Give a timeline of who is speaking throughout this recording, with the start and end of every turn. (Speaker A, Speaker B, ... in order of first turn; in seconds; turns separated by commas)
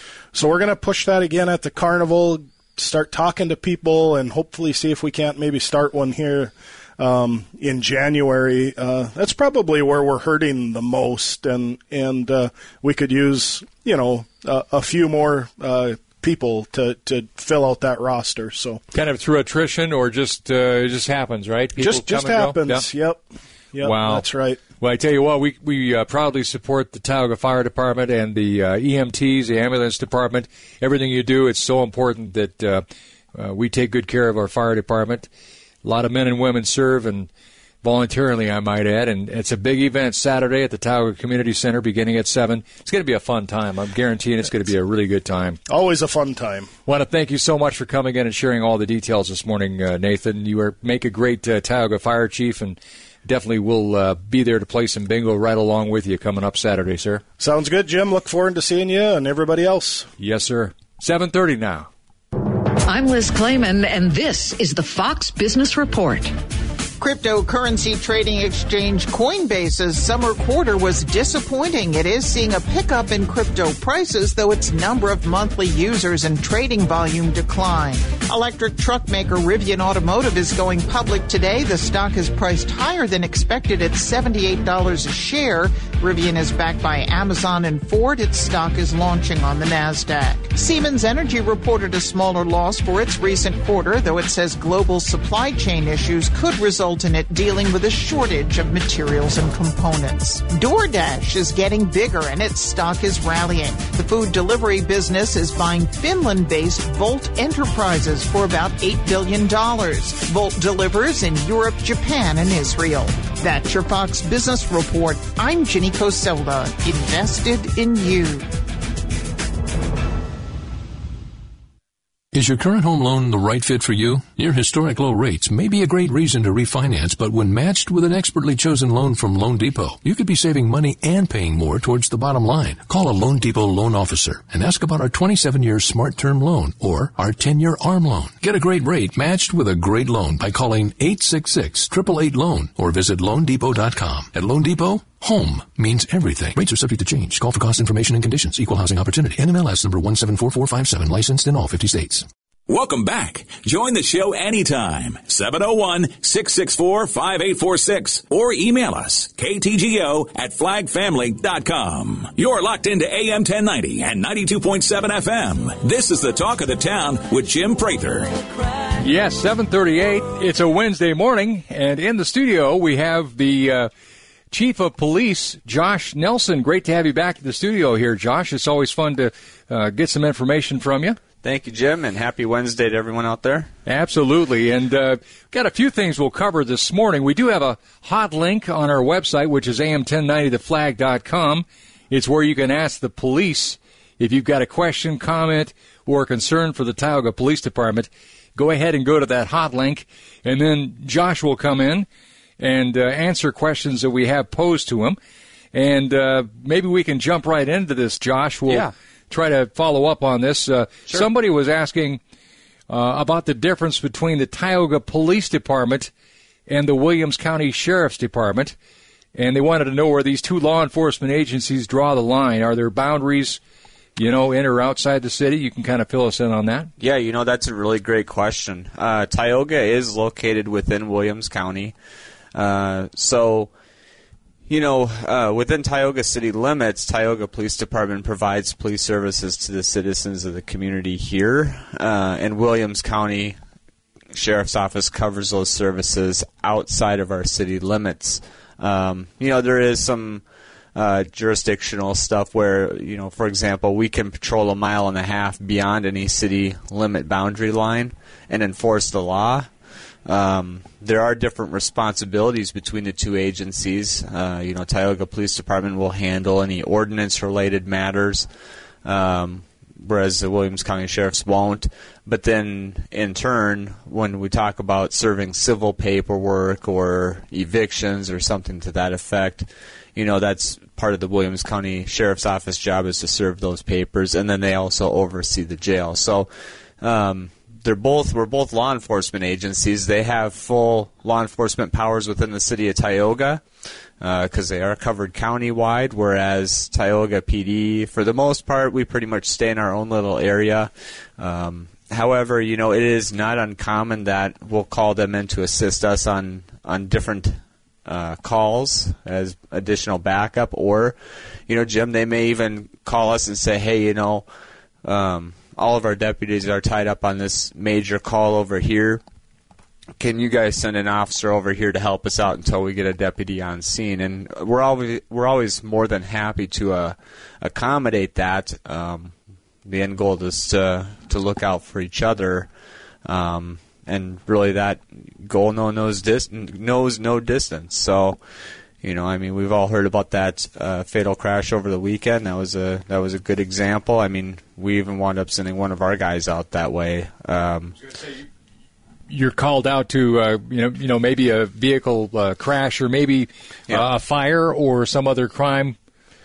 Speaker A: 0.3-18.8, Speaker B: 18.9-22.9, Speaker A: 21.8-24.6, Speaker B: 23.8-24.2, Speaker B: 24.8-35.3, Speaker B: 35.8-37.3, Speaker B: 37.8-45.6, Speaker A: 45.7-46.7, Speaker B: 46.9-57.2, Speaker A: 57.4-60.1, Speaker B: 60.2-61.9, Speaker C: 62.8-66.3, Speaker D: 67.0-118.5, Speaker E: 122.3-152.3, Speaker F: 152.7-168.4, Speaker B: 169.0-173.9, Speaker B: 174.5-181.2, Speaker G: 181.4-183.7, Speaker B: 183.8-202.1, Speaker B: 202.6-205.2, Speaker B: 205.7-212.2, Speaker B: 212.9-216.1, Speaker B: 216.7-218.7, Speaker B: 219.3-223.6, Speaker B: 224.2-226.9, Speaker G: 227.0-231.9, Speaker G: 232.5-233.7, Speaker G: 234.7-243.6, Speaker G: 244.3-250.4, Speaker G: 250.9-259.7, Speaker G: 260.2-268.5, Speaker G: 269.0-286.5, Speaker G: 287.0-293.6, Speaker G: 294.2-311.1, Speaker G: 311.7-314.4, Speaker G: 315.0-319.2, Speaker G: 320.2-329.3, Speaker G: 329.8-332.7, Speaker G: 333.2-338.4, Speaker G: 339.0-348.1, Speaker B: 349.3-355.9